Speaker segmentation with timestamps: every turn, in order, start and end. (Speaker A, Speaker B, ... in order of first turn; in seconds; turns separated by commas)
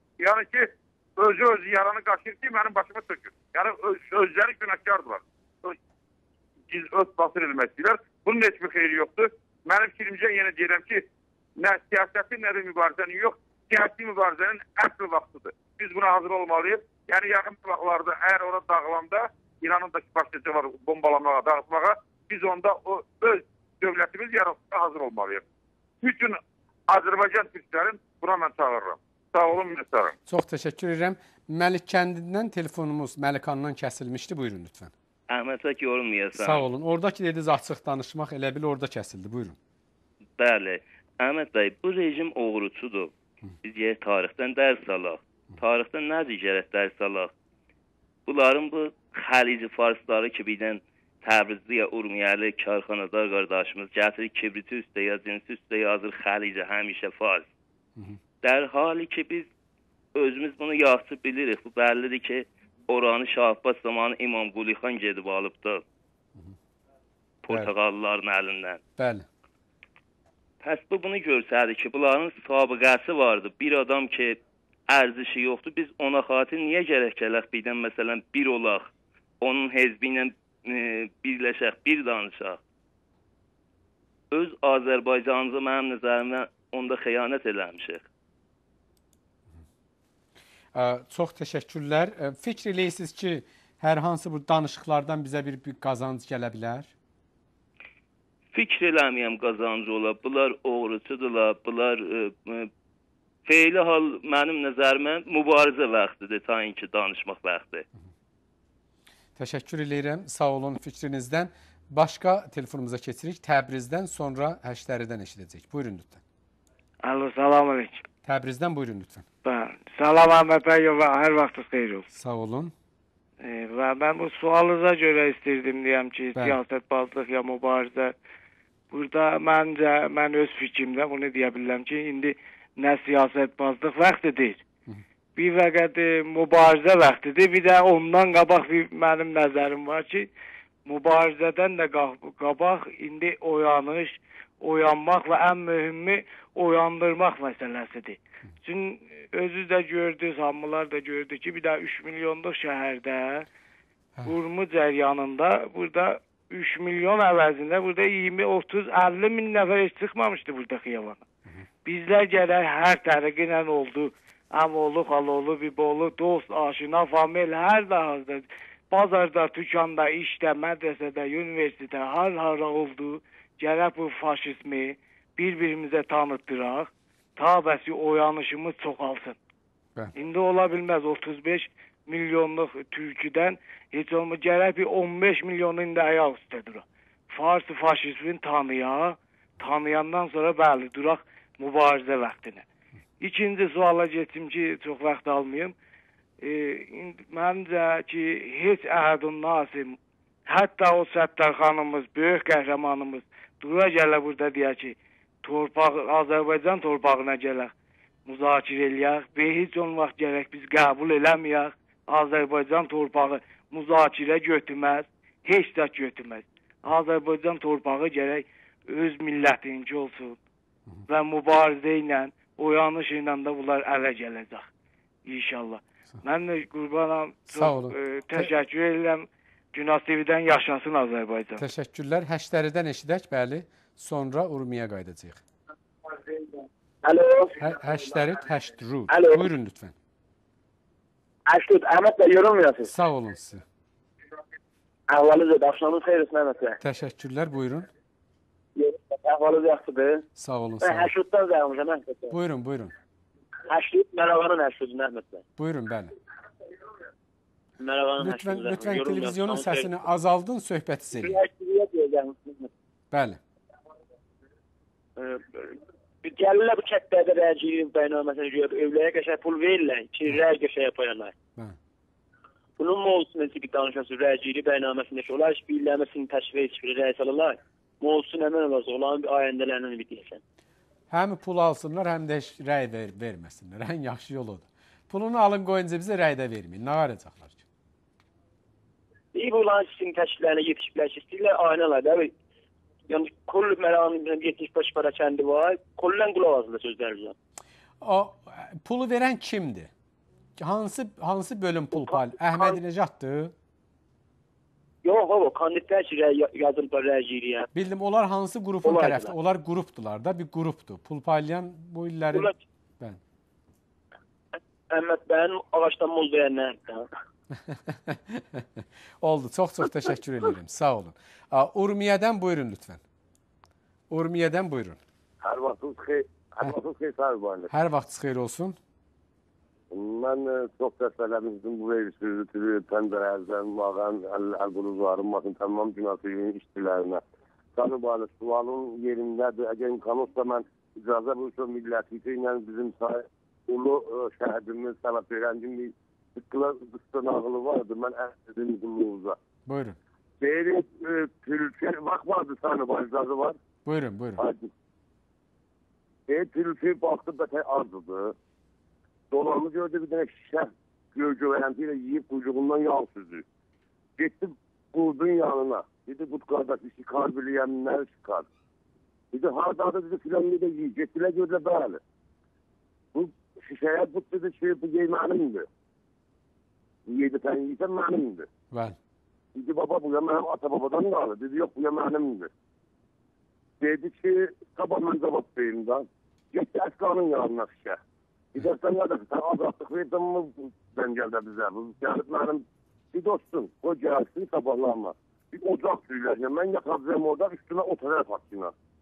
Speaker A: 0.2-5.8, Speaker A: 6.7-11.1, Speaker A: 11.6-25.4, Speaker A: 26.0-30.1, Speaker B: 30.3-34.9, Speaker C: 35.3-36.7, Speaker B: 36.4-39.6, Speaker C: 40.4-43.1, Speaker C: 43.6-47.3, Speaker C: 48.3-57.5, Speaker C: 58.4-59.5, Speaker C: 60.1-65.8, Speaker C: 67.4-68.8, Speaker B: 69.0-69.3, Speaker C: 70.6-78.9, Speaker C: 79.4-82.6, Speaker C: 84.3-88.1, Speaker B: 90.8-96.9, Speaker C: 98.5-102.7, Speaker C: 103.5-107.8, Speaker B: 109.4-116.2, Speaker D: 117.0-118.0, Speaker B: 118.2-119.3, Speaker D: 119.4-122.1, Speaker B: 122.1-122.7, Speaker D: 123.4-128.2, Speaker B: 126.3-126.6, Speaker D: 128.9-134.6, Speaker D: 135.4-140.3, Speaker D: 140.8-153.5, Speaker D: 154.2-161.2, Speaker D: 161.8-179.4, Speaker D: 180.2-192.6, Speaker D: 193.2-195.8, Speaker D: 196.4-207.7, Speaker D: 208.3-220.4, Speaker D: 221.1-224.7, Speaker D: 225.2-231.6, Speaker B: 227.5-228.5, Speaker B: 231.6-235.4, Speaker E: 236.3-238.0, Speaker B: 237.6-239.9, Speaker E: 239.1-239.4, Speaker E: 241.5-242.9, Speaker B: 242.9-243.6, Speaker E: 245.1-246.8, Speaker B: 246.8-247.9, Speaker E: 248.8-250.2, Speaker B: 250.4-251.1, Speaker E: 250.8-252.3, Speaker B: 252.3-252.9, Speaker E: 253.7-255.4, Speaker B: 255.6-256.1, Speaker E: 257.8-259.9, Speaker B: 258.2-261.4, Speaker E: 261.2-262.7, Speaker B: 263.1-263.4, Speaker E: 265.2-271.3, Speaker E: 272.8-280.4, Speaker B: 281.1-287.6, Speaker E: 289.3-292.3, Speaker E: 293.1-297.3, Speaker B: 298.0-299.9, Speaker B: 300.6-303.5, Speaker E: 302.1-302.6, Speaker E: 305.0-307.7, Speaker B: 307.7-313.2, Speaker E: 308.8-309.3, Speaker E: 314.9-317.1, Speaker B: 317.7-323.0, Speaker B: 324.1-325.0, Speaker F: 325.4-327.7, Speaker B: 327.7-328.8, Speaker F: 329.9-337.2, Speaker F: 337.8-349.4, Speaker B: 349.7-350.0, Speaker F: 350.4-353.6, Speaker B: 353.9-354.4, Speaker F: 354.4-354.7, Speaker F: 356.3-358.4, Speaker F: 359.3-363.4, Speaker F: 364.2-368.5, Speaker F: 369.3-372.0, Speaker F: 373.1-375.7, Speaker F: 377.1-378.5, Speaker B: 378.7-379.0, Speaker F: 379.6-382.5, Speaker F: 383.8-388.0, Speaker F: 388.6-398.7